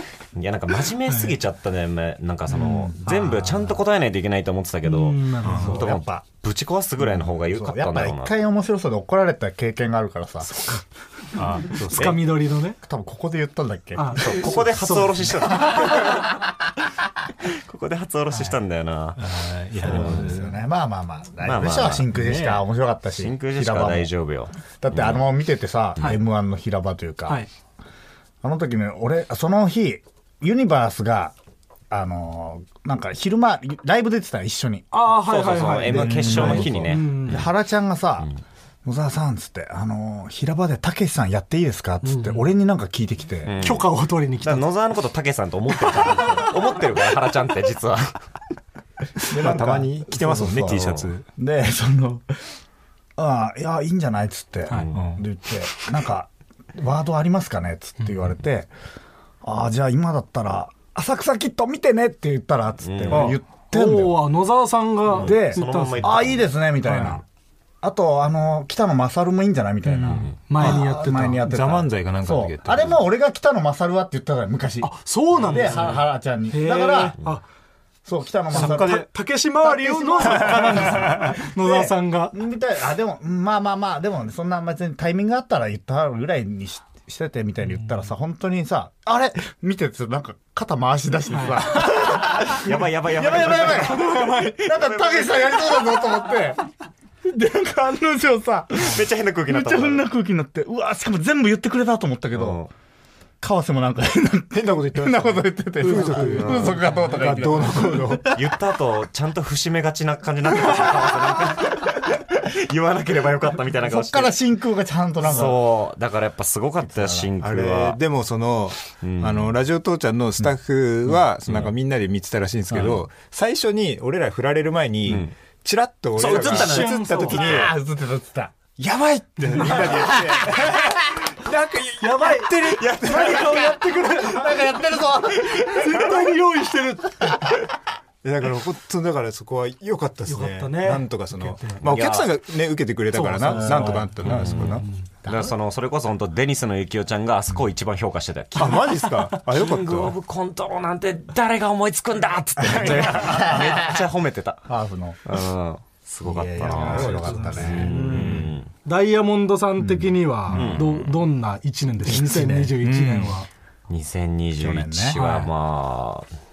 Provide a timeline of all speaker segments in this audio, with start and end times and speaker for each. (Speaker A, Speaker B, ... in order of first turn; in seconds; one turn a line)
Speaker A: 0.3-8.3
Speaker B: 1.0-1.4
Speaker C: 2.5-3.7
Speaker B: 4.8-5.8
Speaker D: 5.4-5.7
Speaker C: 5.6-6.2
Speaker C: 7.0-10.5
Speaker B: 10.4-10.8
Speaker D: 11.3-12.3
Speaker B: 11.7-12.8
Speaker C: 12.8-14.6
Speaker B: 13.9-15.6
Speaker A: 14.2-16.5
Speaker C: 15.5-16.0
Speaker A: 17.4-19.3
Speaker D: 19.2-20.6
Speaker A: 19.8-20.4
Speaker C: 19.8-24.1
Speaker A: 21.4-22.1
Speaker D: 22.1-22.6
Speaker A: 23.2-25.2
Speaker C: 24.8-27.4
Speaker C: 28.4-31.3
Speaker C: 31.9-34.9
Speaker B: 34.9-37.4
Speaker A: 35.2-37.5
Speaker C: 35.8-38.3
Speaker D: 35.9-36.9
Speaker C: 38.8-43.5
Speaker B: 42.0-42.5
Speaker A: 43.4-48.2
Speaker B: 43.6-44.7
Speaker B: 45.9-46.5
Speaker D: 49.3-51.2
Speaker C: 49.3-52.3
Speaker A: 50.7-51.1
Speaker C: 53.1-58.7
Speaker A: 54.7-55.0
Speaker D: 54.9-55.2
Speaker C: 59.4-64.2
Speaker A: 62.8-63.3
Speaker D: 63.1-63.4
Speaker B: 63.7-66.2
Speaker A: 65.1-66.5
Speaker C: 65.2-67.2
Speaker B: 66.8-67.2
Speaker C: 67.8-77.2
Speaker D: 69.8-73.0
Speaker A: 70.0-70.3
Speaker B: 70.5-71.4
Speaker B: 74.8-76.0
Speaker A: 75.4-76.0
Speaker B: 76.5-77.4
Speaker C: 78.0-79.0
Speaker B: 78.5-82.3
Speaker D: 78.5-79.1
Speaker C: 79.6-96.6
Speaker D: 80.2-81.3
Speaker B: 91.3-92.1
Speaker A: 92.5-95.7
Speaker B: 93.2-94.7
Speaker C: 97.2-102.6
Speaker A: 98.8-100.0
Speaker A: 102.3-102.7
Speaker C: 103.4-108.4
Speaker D: 104.5-108.4
Speaker B: 106.1-107.1
Speaker A: 106.2-106.8
Speaker A: 108.2-114.4
Speaker C: 113.8-115.6
Speaker A: 115.2-118.0
Speaker C: 116.9-117.3
Speaker D: 117.4-127.7
Speaker A: 119.0-119.5
Speaker A: 121.4-121.7
Speaker A: 122.7-123.0
Speaker A: 125.0-125.3
Speaker A: 126.2-127.7
Speaker B: 126.3-127.5
Speaker C: 127.3-128.5
Speaker D: 128.8-133.8
Speaker C: 129.9-130.9
Speaker B: 132.0-134.7
Speaker C: 134.0-136.2
Speaker B: 135.3-137.4
Speaker D: 138.2-144.8
Speaker B: 140.2-141.8
Speaker A: 141.8-142.3
Speaker B: 143.1-144.1
Speaker C: 143.4-145.5
Speaker A: 144.2-148.9
Speaker B: 144.7-145.0
Speaker D: 148.5-150.1
Speaker A: 149.5-154.7
Speaker C: 152.6-154.0
Speaker D: 152.7-153.4
Speaker C: 154.7-155.4
Speaker A: 155.2-158.7
Speaker C: 156.2-158.5
Speaker B: 156.6-158.3
Speaker D: 157.9-158.5
Speaker B: 158.8-163.5
Speaker C: 159.8-160.8
Speaker A: 160.5-161.1
Speaker C: 162.0-163.2
Speaker D: 162.8-163.3
Speaker A: 163.9-166.3
Speaker C: 164.6-165.2
Speaker B: 165.2-165.5